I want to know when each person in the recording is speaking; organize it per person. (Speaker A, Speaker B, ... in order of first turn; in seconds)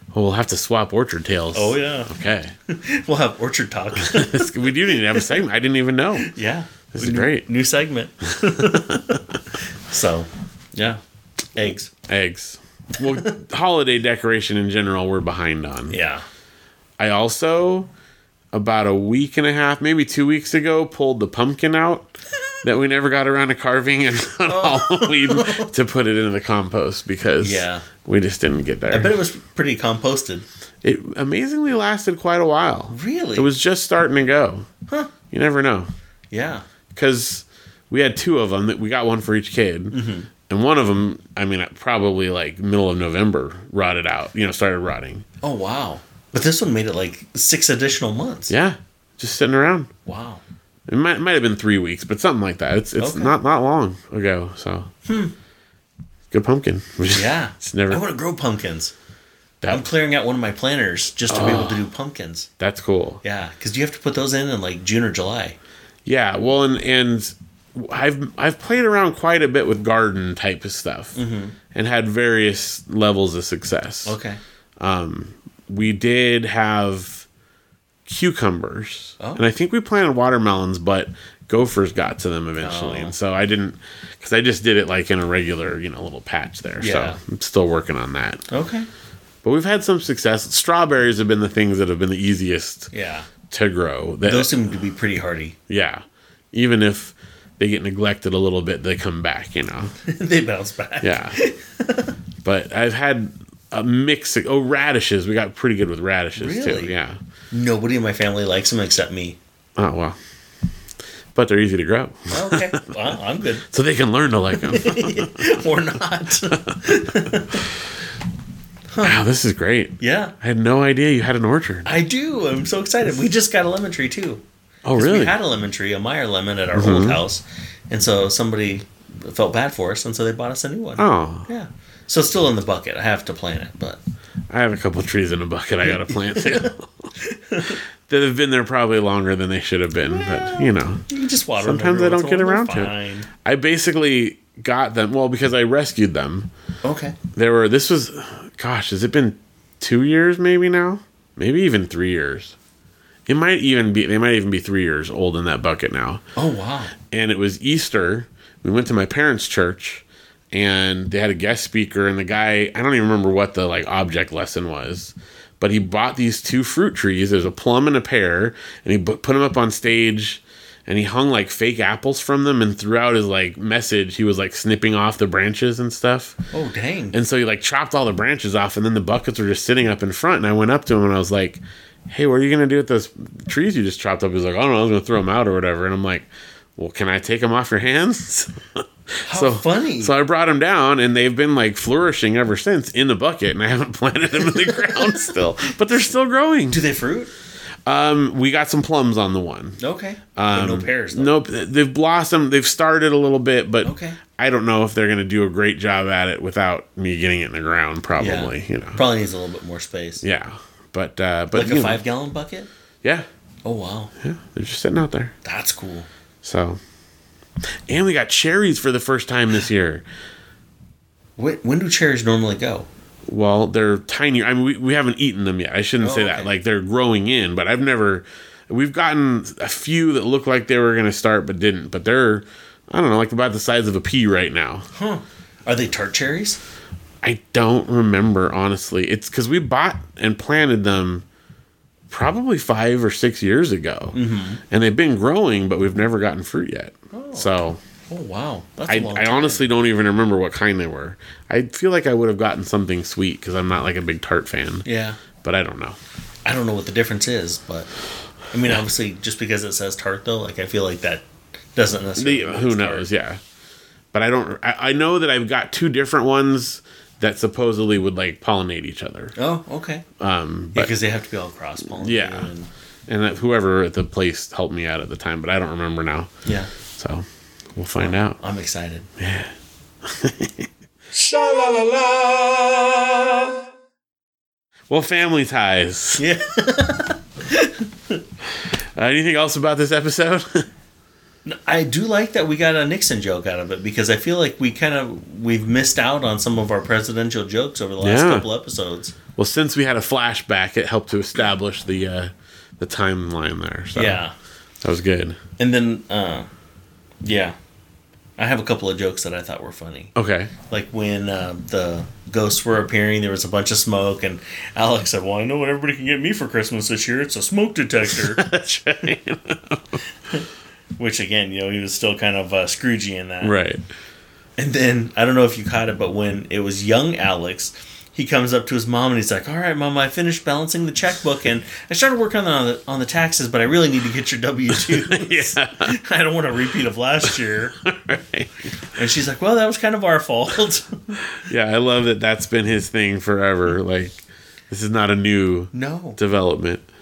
Speaker A: 0.1-2.5, 4.0-6.3, 6.9-7.4, 8.6-9.2, 12.1-16.0, 17.0-17.9, 18.5-29.1, 30.8-34.7, 35.3-35.9, 36.9-40.0, 40.5-45.2, 48.5-49.9, 50.9-54.9, 56.3-58.0, 59.6-59.9, 61.3-61.8, 62.6-63.2, 66.0-71.2, 71.7-74.2, 74.8-77.2, 78.0-88.4, 89.4-92.9, 93.5-94.5, 95.7-99.9, 101.0-101.4, 102.4-107.2, 109.8-110.2, 111.3-112.8, 113.7-115.6, 116.5-116.8, 119.0-121.9, 124.8-125.3, 126.7-127.2, 131.0-131.5, 134.5-137.1, 138.1-141.0, 141.6-146.5, 147.3-152.6, 153.3-156.2, 157.1-176.3, 177.1-196.8, 197.8-199.8, 200.3-209.0, 210.2-212.0, 214.2-215.3, 216.4-216.8, 217.9-220.0, 223.2-234.9, 237.2-241.2, 242.1-244.2, 244.7-247.8, 248.9-254.8, 255.4-256.0, 262.2-263.4, 264.1-269.3, 270.2-270.9, 271.9-272.5, 273.1-276.3, 276.9-277.2, 277.7-278.4, 279.2-279.5, 280.0-280.7, 284.9-286.2, 288.6-290.7, 298.0-298.4, 299.4-304.2, 304.8-305.4, 310.1-310.5, 318.1-320.0, 323.4-323.8, 334.7-335.9, 337.8-338.6, 341.4-346.8
Speaker B: 1.5-2.1, 2.7-5.4, 6.2-9.2, 9.8-11.0, 11.5-11.9, 13.0-13.3, 15.9-16.2, 24.4-25.7, 27.4-27.9, 28.9-30.4, 32.9-33.5, 36.3-36.6, 39.9-40.3, 45.4-48.5, 50.0-50.4, 53.0-53.4, 55.0-55.3, 57.1-58.9, 59.7-62.5, 63.2-65.6, 71.1-71.5, 74.0-74.4, 82.6-83.1, 86.8-87.2, 88.5-88.9, 92.9-93.3, 94.2-95.6, 100.0-102.1, 106.4-106.9, 107.5-109.4, 112.3-113.6, 114.5-117.7, 118.9-119.2, 120.0-120.3, 121.8-124.4, 125.0-134.0, 135.8-137.8, 140.0-143.3, 146.8-147.2, 156.3-156.9, 176.5-177.2, 189.2-190.1, 194.6-195.3, 196.7-197.3, 199.8-201.4, 203.8-204.2, 208.2-210.2, 211.5-212.7, 213.6-214.1, 215.4-216.1, 221.4-222.9, 226.0-226.5, 234.9-236.6, 244.1-244.6, 247.1-249.6, 254.8-255.2, 256.4-257.9, 258.5-263.1, 269.4-270.1, 270.7-272.7, 276.4-276.7, 278.0-279.1, 281.1-283.5, 286.2-288.2, 291.4-299.1, 303.9-304.3, 305.6-306.5, 307.2-307.5, 308.4-310.1, 310.6-319.1, 321.0-323.5, 324.6-337.8, 338.9-341.2, 345.7-346.2